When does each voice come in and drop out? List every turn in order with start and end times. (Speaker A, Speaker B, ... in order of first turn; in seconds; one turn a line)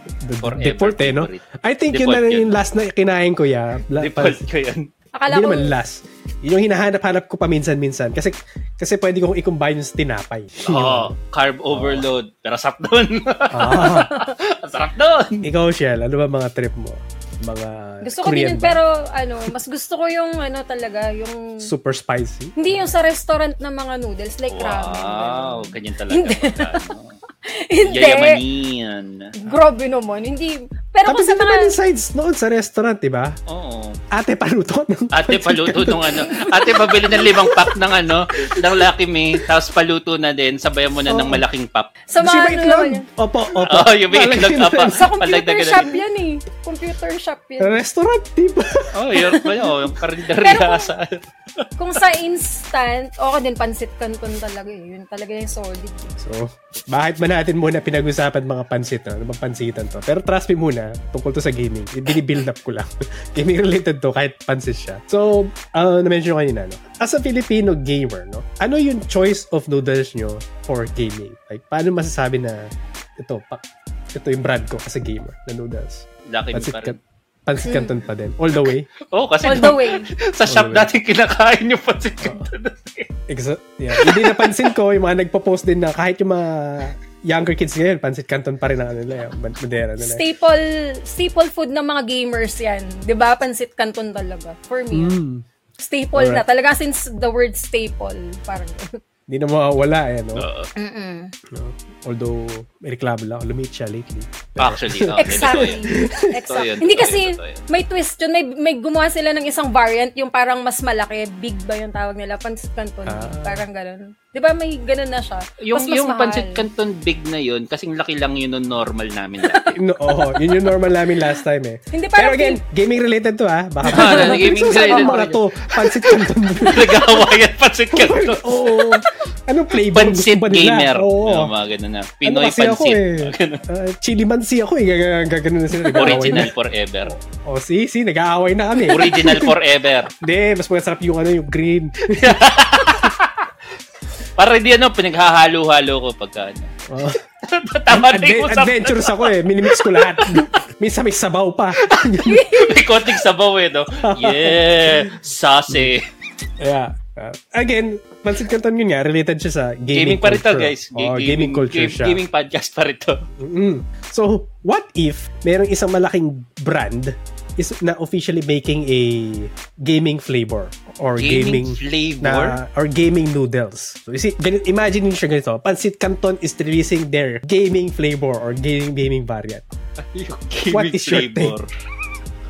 Speaker A: 0.2-4.5
Speaker B: 0.4-2.6
Speaker B: 4.0-4.9
Speaker C: 5.2-5.8
Speaker A: 5.3-11.2
Speaker B: 10.6-15.4
Speaker A: 11.7-12.1
Speaker A: 13.5-14.1
Speaker C: 13.8-14.3
Speaker A: 15.4-18.8
Speaker C: 18.0-21.7
Speaker A: 21.6-22.9
Speaker C: 22.6-26.9
Speaker B: 24.5-27.2
Speaker C: 27.4-28.4
Speaker B: 27.9-29.3
Speaker C: 29.4-31.8
Speaker A: 31.1-33.4
Speaker B: 33.5-34.0
Speaker A: 34.1-36.3
Speaker B: 35.1-41.9
Speaker C: 36.3-37.4
Speaker A: 41.1-41.4
Speaker C: 42.1-43.0
Speaker A: 42.2-45.0
Speaker B: 43.6-46.0
Speaker C: 44.8-47.8
Speaker A: 47.6-49.0
Speaker B: 48.9-52.0
Speaker C: 50.4-50.9
Speaker C: 51.8-56.1
Speaker A: 56.2-73.6
Speaker A: 74.1-78.9
Speaker B: 76.3-77.0
Speaker C: 77.6-78.0
Speaker B: 79.0-83.1
Speaker C: 79.4-80.1
Speaker A: 80.5-80.9
Speaker A: 83.3-90.2
Speaker B: 83.9-84.7
Speaker C: 90.0-95.2
Speaker A: 94.9-95.5
Speaker C: 95.8-99.0
Speaker A: 96.2-96.4
Speaker A: 99.3-100.5
Speaker B: 100.4-100.7
Speaker C: 100.8-101.3
Speaker A: 101.5-106.3
Speaker B: 104.6-107.7
Speaker C: 105.2-116.6
Speaker A: 113.1-113.6
Speaker B: 115.6-119.8
Speaker C: 119.4-119.7
Speaker A: 119.8-127.2
Speaker C: 121.9-122.6
Speaker C: 123.9-125.3
Speaker B: 123.9-129.0
Speaker A: 127.9-131.5
Speaker B: 129.8-133.6
Speaker A: 132.2-136.5
Speaker C: 135.8-136.4
Speaker B: 135.9-137.2
Speaker A: 137.1-139.5
Speaker B: 138.9-140.1
Speaker A: 140.2-142.5
Speaker B: 142.1-143.5
Speaker B: 144.4-146.7
Speaker A: 146.9-147.2
Speaker B: 147.4-150.6
Speaker A: 147.9-152.4
Speaker B: 151.8-156.1
Speaker C: 152.2-152.9
Speaker A: 154.0-155.1
Speaker A: 155.7-155.9
Speaker A: 156.6-162.2
Speaker B: 159.9-163.2
Speaker A: 163.4-179.7
Speaker B: 171.2-172.6
Speaker B: 180.0-181.7
Speaker A: 180.7-181.6